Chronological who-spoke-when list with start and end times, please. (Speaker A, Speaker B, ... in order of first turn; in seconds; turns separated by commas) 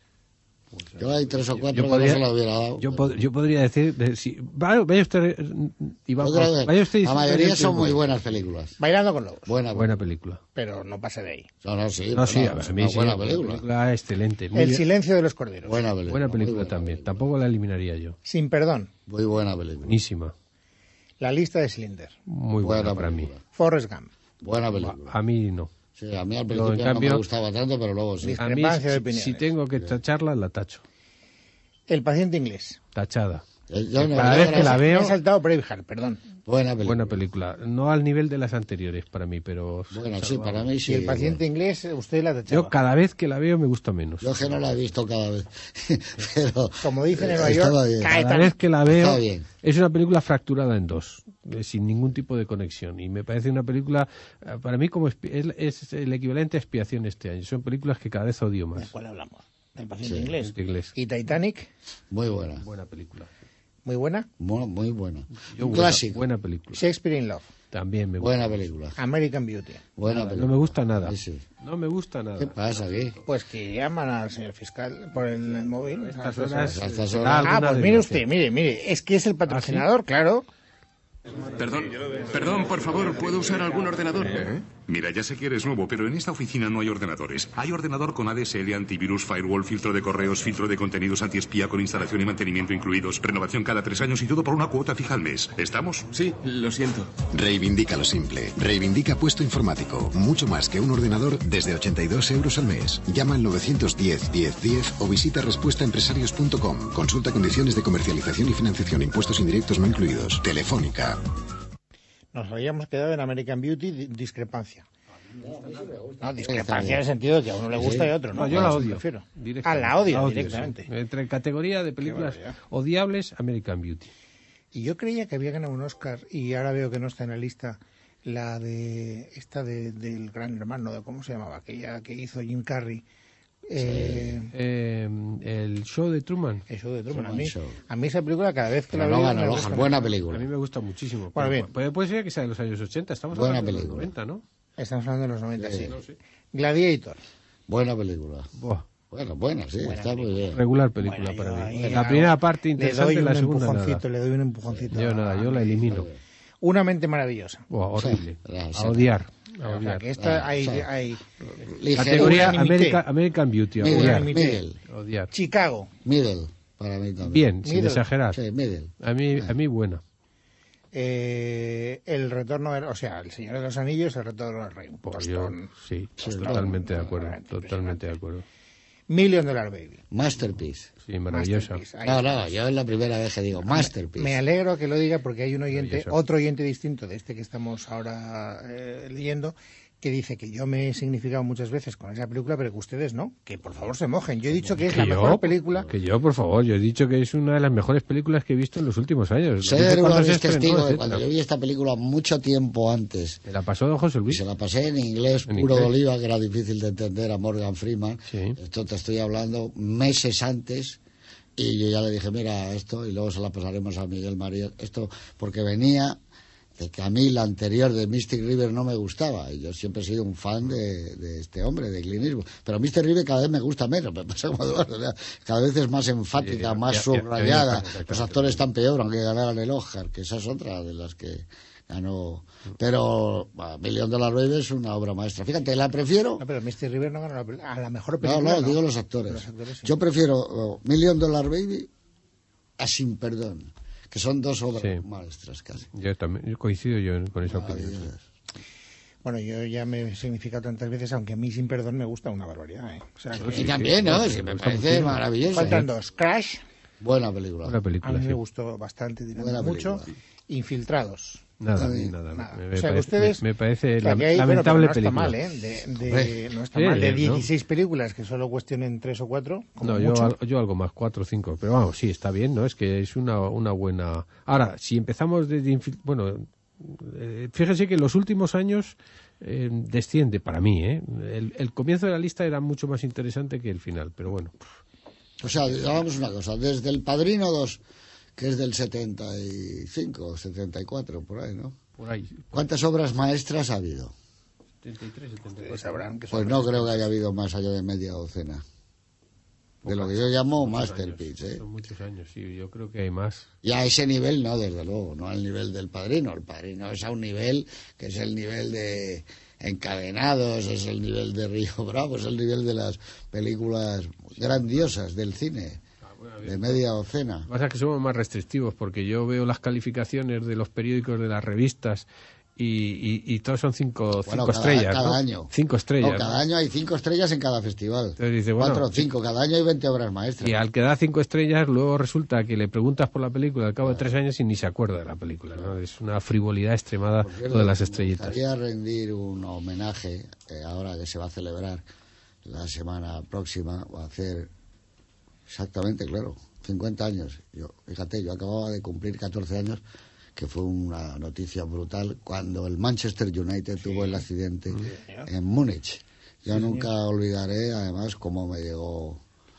Speaker A: 0.7-2.2, Speaker B: 1.0-3.2, Speaker A: 2.8-8.0, Speaker B: 6.2-8.8, Speaker C: 8.8-9.6, Speaker B: 9.4-10.0, Speaker A: 9.7-10.4, Speaker C: 10.5-11.5, Speaker B: 11.6-13.6, Speaker A: 12.1-14.8, Speaker C: 14.5-15.8, Speaker B: 15.6-17.2, Speaker A: 16.1-18.2, Speaker C: 18.2-18.9, Speaker B: 19.1-20.0, Speaker A: 19.8-20.3, Speaker C: 21.2-22.2, Speaker A: 22.3-23.3, Speaker B: 22.6-23.4, Speaker C: 23.5-24.1, Speaker B: 24.4-25.1, Speaker A: 24.7-25.7, Speaker B: 25.9-28.4, Speaker A: 26.5-27.2, Speaker C: 28.2-29.5, Speaker A: 28.4-30.8, Speaker C: 31.9-32.8, Speaker A: 32.9-33.4, Speaker B: 33.7-34.8, Speaker A: 34.0-35.1, Speaker C: 34.1-36.2, Speaker B: 36.4-37.2, Speaker A: 36.8-40.7, Speaker B: 39.9-41.4, Speaker C: 40.9-42.7, Speaker A: 42.5-44.6, Speaker B: 44.2-48.2, Speaker C: 46.8-48.5, Speaker A: 48.1-58.9, Speaker B: 48.8-49.5, Speaker C: 58.8-61.7, Speaker B: 60.0-60.3, Speaker A: 60.4-60.9, Speaker B: 62.1-62.6, Speaker A: 62.6-63.3, Speaker C: 63.8-64.3, Speaker B: 64.4-66.2, Speaker A: 65.3-66.8, Speaker C: 66.7-67.5, Speaker A: 67.7-68.7, Speaker B: 68.2-69.0, Speaker C: 69.0-69.9, Speaker B: 70.0-71.4, Speaker A: 70.0-73.2, Speaker B: 72.4-73.2, Speaker C: 73.2-80.5, Speaker A: 76.1-78.2, Speaker B: 76.7-77.6, Speaker A: 79.5-79.9, Speaker D: 81.5-84.7, Speaker E: 84.9-96.1, Speaker D: 96.1-97.2, Speaker F: 97.3-111.2, Speaker C: 112.3-114.8, Speaker B: 115.4-117.0, Speaker C: 116.2-120.9, Speaker B: 117.7-118.8, Speaker A: 118.3-124.1, Speaker C: 122.0-122.6, Speaker C: 124.7-133.0, Speaker C: 133.7-134.5, Speaker B: 133.8-134.4, Speaker A: 134.5-136.7, Speaker C: 136.7-140.1, Speaker B: 137.1-137.8, Speaker B: 138.9-140.5, Speaker A: 140.3-144.4, Speaker C: 141.3-141.7, Speaker B: 143.3-144.1, Speaker C: 144.8-146.0, Speaker B: 145.6-145.9, Speaker A: 145.9-146.2, Speaker C: 146.5-147.2, Speaker B: 147.7-148.5, Speaker A: 148.6-148.8, Speaker B: 149.1-150.6, Speaker C: 149.8-156.0, Speaker A: 150.5-154.0, Speaker B: 151.7-152.2, Speaker A: 154.9-156.1, Speaker B: 155.8-156.2, Speaker C: 156.6-157.6, Speaker A: 157.7-160.0, Speaker B: 157.9-159.2, Speaker C: 159.6-161.2, Speaker B: 160.2-160.9, Speaker B: 161.6-162.6, Speaker C: 161.9-163.0, Speaker A: 161.9-164.3, Speaker B: 163.8-164.8, Speaker C: 163.8-164.6, Speaker A: 164.9-165.3, Speaker C: 165.3-165.9, Speaker B: 166.0-167.5, Speaker A: 167.2-168.4, Speaker C: 167.6-168.0, Speaker B: 168.3-169.5, Speaker A: 169.0-170.0, Speaker C: 170.9-178.1, Speaker A: 175.0-178.4, Speaker B: 176.2-176.8, Speaker C: 179.1-180.0, Speaker B: 180.1-180.9, Speaker A: 181.0-181.8, Speaker C: 181.3-182.5, Speaker B: 182.0-184.4, Speaker C: 183.6-195.9, Speaker A: 185.7-186.1, Speaker B: 194.5-195.9, Speaker A: 194.9-201.2, Speaker B: 199.6-203.4, Speaker A: 203.4-204.4, Speaker B: 204.3-211.0, Speaker A: 205.5-205.9, Speaker A: 208.3-208.6, Speaker B: 211.6-216.2, Speaker B: 216.8-236.4, Speaker A: 226.4-228.6, Speaker C: 236.4-239.9, Speaker B: 238.2-241.9, Speaker B: 242.8-245.9, Speaker A: 245.9-248.1, Speaker B: 247.4-248.2, Speaker C: 249.2-253.9, Speaker A: 253.3-255.8, Speaker B: 253.4-255.8, Speaker C: 255.5-256.6, Speaker B: 257.0-257.8, Speaker A: 257.6-258.4, Speaker C: 258.0-261.5, Speaker B: 259.3-260.1, Speaker A: 261.6-265.4, Speaker B: 261.8-262.1, Speaker C: 262.3-263.4, Speaker C: 264.0-270.3, Speaker B: 266.0-266.4, Speaker A: 266.7-267.5, Speaker A: 269.8-284.7, Speaker B: 285.4-287.8, Speaker B: 288.4-291.8, Speaker A: 292.0-292.6, Speaker B: 292.5-294.1, Speaker A: 294.8-296.1, Speaker C: 295.5-297.1, Speaker B: 296.3-298.6, Speaker A: 299.8-303.5, Speaker B: 299.8-301.6, Speaker B: 303.6-315.8, Speaker A: 316.0-316.8, Speaker B: 316.4-317.5, Speaker A: 317.5-322.1, Speaker A: 322.6-326.4, Speaker B: 324.1-330.6, Speaker A: 328.2-329.0, Speaker A: 330.4-338.4, Speaker B: 337.2-341.8, Speaker B: 342.4-344.5, Speaker B: 345.5-349.8, Speaker B: 350.4-359.2, Speaker C: 353.8-354.2, Speaker C: 354.8-355.3, Speaker C: 356.5-356.9